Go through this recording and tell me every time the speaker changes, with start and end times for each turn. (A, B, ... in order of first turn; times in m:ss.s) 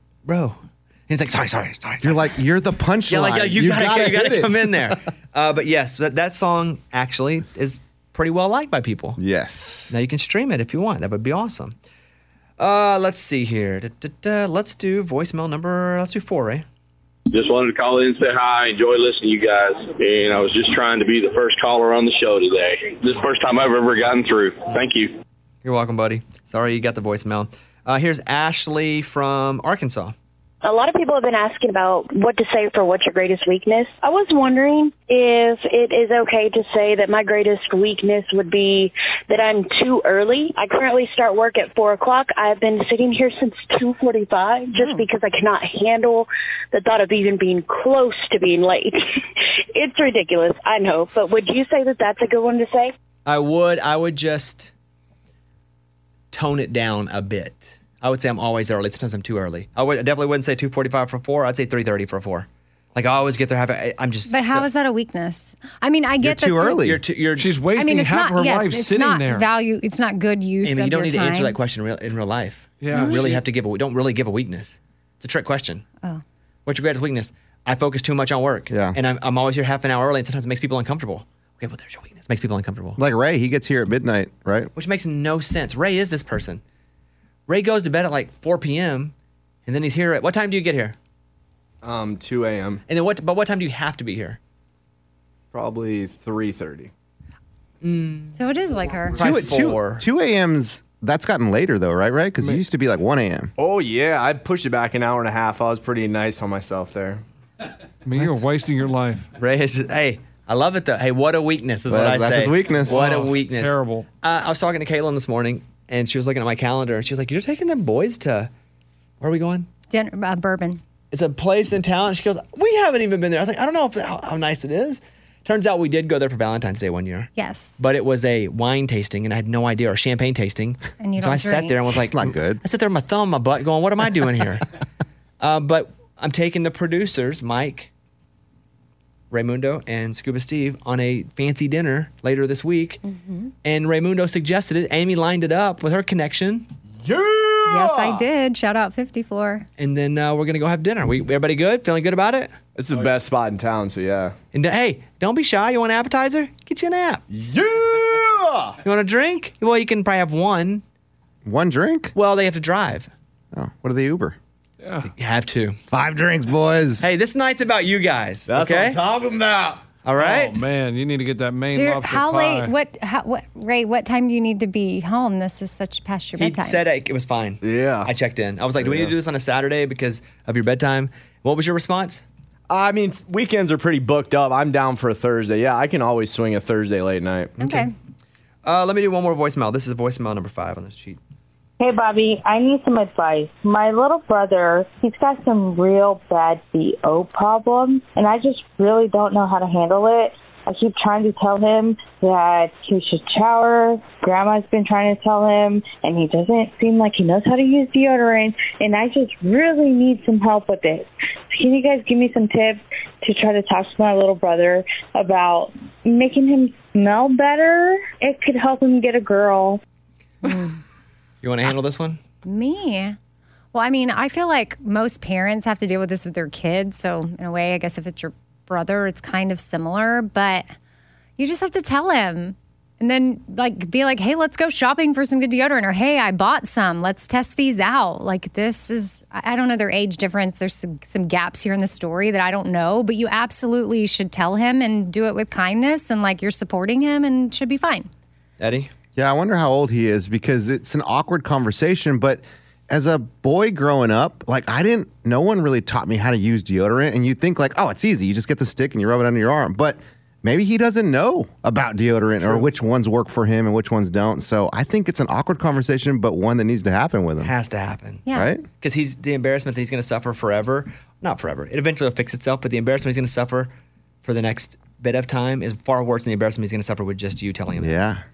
0:00.2-0:02.4 A
0:02.0-0:05.0 B
0:03.1-0:09.2 A
0:09.2-0:09.9 B
0:09.9-0:11.8 A
0:12.6-0:16.6 A
0:17.3-0:25.1 C
0:25.6-0:30.1 A
0:30.6-0:49.0 D
0:44.8-0:45.0 E
0:49.7-0:52.9 D
0:53.2-0:54.7 A
0:56.3-1:04.7 A
1:04.3-1:06.8 E
1:06.2-1:07.0 B
1:06.8-1:07.5 A
1:07.4-1:09.5 F
1:07.7-1:11.6 E
1:10.6-1:15.8 A
1:12.8-1:13.4 F
1:12.9-1:13.2 E
1:16.6-1:23.0 A
1:18.7-1:19.0 B
1:23.0-1:24.7 B
1:24.7-1:26.6 A
1:27.5-1:29.1 A
1:29.6-1:31.0 A
1:31.8-1:32.8 G
1:32.9-1:34.4 A
1:35.5-1:36.9 G
1:37.8-1:38.4 A
1:38.3-1:39.2 E
1:39.1-1:40.0 A
1:39.2-1:43.5 B
1:43.6-1:47.2 G
1:48.0-1:49.3 F
1:49.3-1:58.5 A
1:51.9-1:53.1 B
1:52.8-1:54.1 F
1:59.2-1:59.7 A
1:59.9-2:00.8 E
2:01.1-2:14.6 A
2:07.4-2:07.8 E
2:11.0-2:11.8 E
2:11.9-2:12.6 B
2:15.4-2:17.9 A
2:19.3-2:23.0 A
2:23.0-2:23.5 E
2:23.6-2:26.7 A
2:27.0-2:28.2 G
2:27.7-2:29.7 E
2:29.8-2:32.5 A
2:32.7-2:34.3 G
2:34.5-2:37.2 A
2:37.3-2:38.8 G
2:38.8-2:40.8 A
2:41.4-2:42.1 B
2:42.1-2:43.1 A
2:43.5-2:44.4 B
2:44.8-2:45.1 F
2:45.0-2:45.8 A
2:45.9-2:47.1 B
2:47.0-2:49.0 A
2:48.5-2:49.8 G
2:50.0-2:50.6 A
2:50.2-2:52.7 F
2:51.7-2:56.8 E
2:56.4-3:02.2 A
2:57.6-2:58.1 G
2:58.8-2:59.1 G
3:02.7-3:07.8 G
3:07.6-3:07.9 E
3:08.6-3:11.2 A
3:11.8-3:39.8 H
3:40.4-3:40.8 E
3:41.4-3:42.2 A
3:42.4-3:43.2 E
3:43.7-3:50.6 E
3:51.4-4:08.1 E
4:08.6-4:08.9 A
4:09.2-4:27.5 B
4:22.4-4:22.7 A
4:27.4-4:33.7 A
4:28.2-4:28.5 E
4:28.3-4:28.6 B
4:34.2-4:38.0 A
4:37.7-4:38.2 B